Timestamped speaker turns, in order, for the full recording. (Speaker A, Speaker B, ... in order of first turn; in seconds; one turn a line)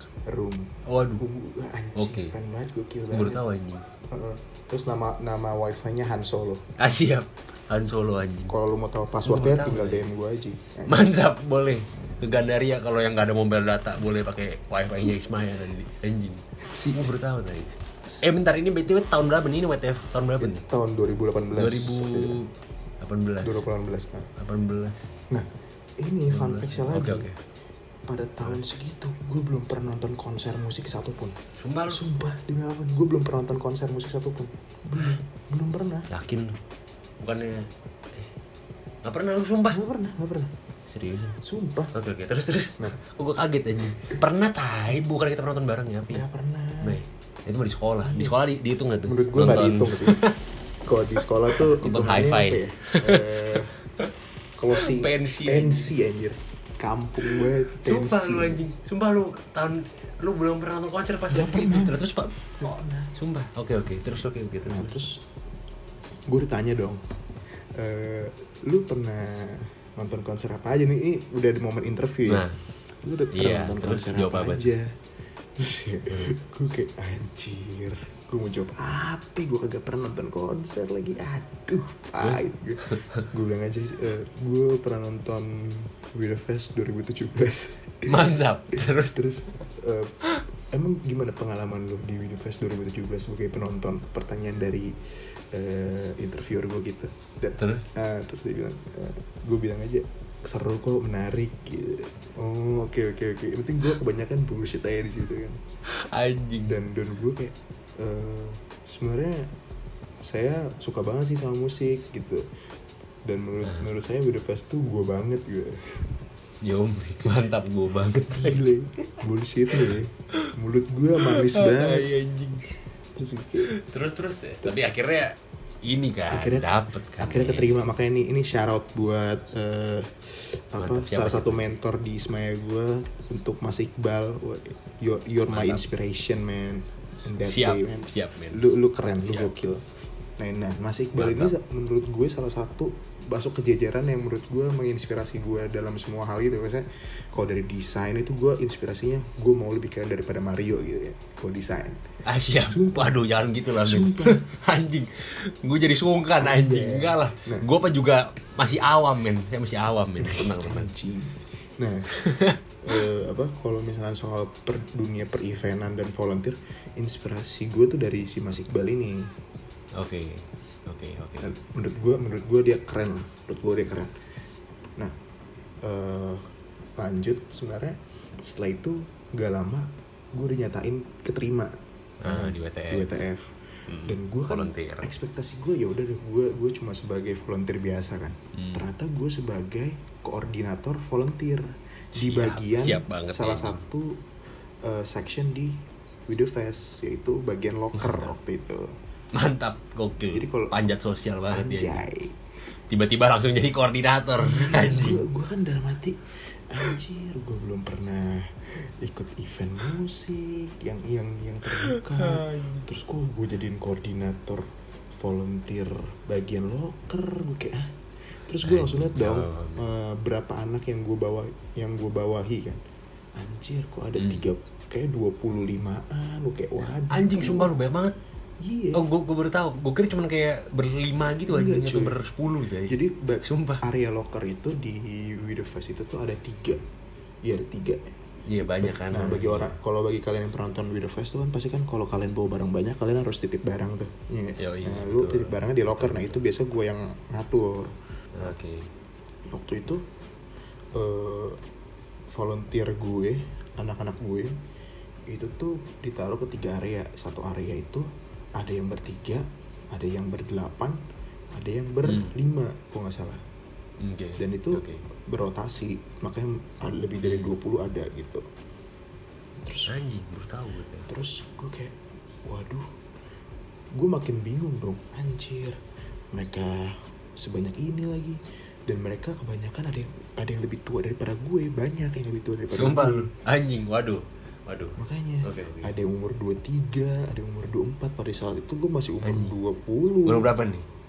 Speaker A: 0.3-3.4
Speaker B: 0.8-1.2
Speaker B: 1.9-2.3
Speaker B: 3.1-3.9
Speaker A: 4.1-6.7
Speaker B: 6.8-8.5
Speaker A: 8.5-11.0
Speaker B: 9.2-10.1
Speaker B: 10.9-20.6
Speaker A: 16.7-17.1
Speaker A: 20.4-22.4
Speaker B: 21.6-23.6
Speaker A: 23.4-24.3
Speaker B: 24.4-25.0
Speaker A: 26.0-27.3
Speaker B: 26.3-27.4
Speaker A: 28.1-31.4
Speaker B: 31.6-32.0
Speaker A: 31.9-36.1
Speaker B: 36.1-36.6
Speaker B: 37.2-38.3
Speaker B: 39.0-39.8
Speaker A: 39.7-40.5
Speaker B: 40.9-41.4
Speaker A: 41.4-41.9
Speaker B: 41.9-46.2
Speaker A: 46.1-47.0
Speaker B: 46.8-50.4
Speaker A: 48.0-48.3
Speaker A: 49.0-50.2
Speaker A: 50.9-53.7
Speaker B: 51.5-54.1
Speaker A: 54.6-58.6
Speaker B: 54.7-55.9
Speaker B: 57.2-65.0
Speaker A: 61.3-62.0
Speaker A: 62.6-63.1
Speaker A: 64.6-65.2
Speaker A: 66.3-67.0
Speaker A: 67.7-72.4
Speaker B: 72.2-72.6
Speaker A: 73.0-74.9
Speaker B: 73.3-74.7
Speaker A: 75.6-90.2
Speaker B: 82.2-83.2
Speaker B: 88.0-89.2
Speaker A: 90.7-94.9
Speaker A: 95.5-105.6
Speaker B: 97.6-97.8
Speaker B: 105.9-106.8
Speaker A: 106.6-109.5
Speaker A: 110.2-112.4
Speaker A: 113.2-115.9
Speaker B: 116.6-118.7
Speaker A: 118.3-122.1
Speaker B: 119.7-120.0
Speaker B: 121.2-122.7
Speaker A: 123.2-123.7
Speaker B: 123.7-127.8
Speaker A: 126.3-126.7
Speaker A: 127.2-139.8
Speaker B: 130.8-131.7
Speaker B: 135.5-135.8
Speaker B: 137.4-138.6
Speaker B: 139.2-139.6
Speaker A: 140.4-152.0
Speaker B: 141.2-141.5
Speaker B: 152.2-160.9
Speaker A: 152.6-153.2
Speaker A: 153.8-154.4
Speaker A: 156.4-157.7
Speaker A: 160.2-162.1
Speaker B: 162.1-162.6
Speaker A: 162.8-169.3
Speaker B: 169.9-171.5
Speaker A: 171.4-174.1
Speaker A: 175.8-176.4
Speaker A: 177.0-181.7
Speaker B: 182.2-183.1
Speaker A: 182.2-194.2
Speaker B: 183.9-185.1
Speaker B: 188.5-188.8
Speaker B: 192.1-193.8
Speaker A: 194.8-198.9
Speaker B: 198.0-198.3
Speaker B: 199.3-202.1
Speaker A: 200.3-200.8
Speaker A: 201.5-202.3
Speaker B: 202.9-205.2
Speaker A: 204.4-206.2
Speaker A: 206.7-217.9
Speaker B: 211.7-212.8
Speaker A: 218.5-222.8
Speaker B: 218.6-219.8
Speaker A: 223.3-227.7
Speaker B: 224.2-224.4
Speaker B: 226.9-228.2
Speaker A: 228.6-229.0
Speaker B: 228.9-233.8
Speaker A: 231.4-232.2
Speaker A: 232.8-236.8
Speaker A: 237.4-238.1
Speaker B: 238.5-239.7
Speaker A: 238.8-247.9
Speaker B: 244.6-246.4
Speaker B: 248.3-248.9
Speaker A: 249.5-250.0
Speaker A: 250.9-251.6
Speaker A: 252.3-254.5
Speaker A: 255.3-261.0
Speaker A: 261.5-263.4
Speaker B: 262.0-262.3
Speaker B: 264.0-265.0
Speaker A: 264.4-268.4
Speaker B: 267.2-267.5
Speaker A: 269.6-269.9
Speaker B: 269.9-271.1
Speaker A: 271.1-272.9
Speaker A: 273.9-275.8
Speaker A: 276.3-283.3
Speaker B: 282.7-285.9
Speaker A: 285.0-290.5
Speaker B: 289.2-289.5
Speaker B: 290.2-290.9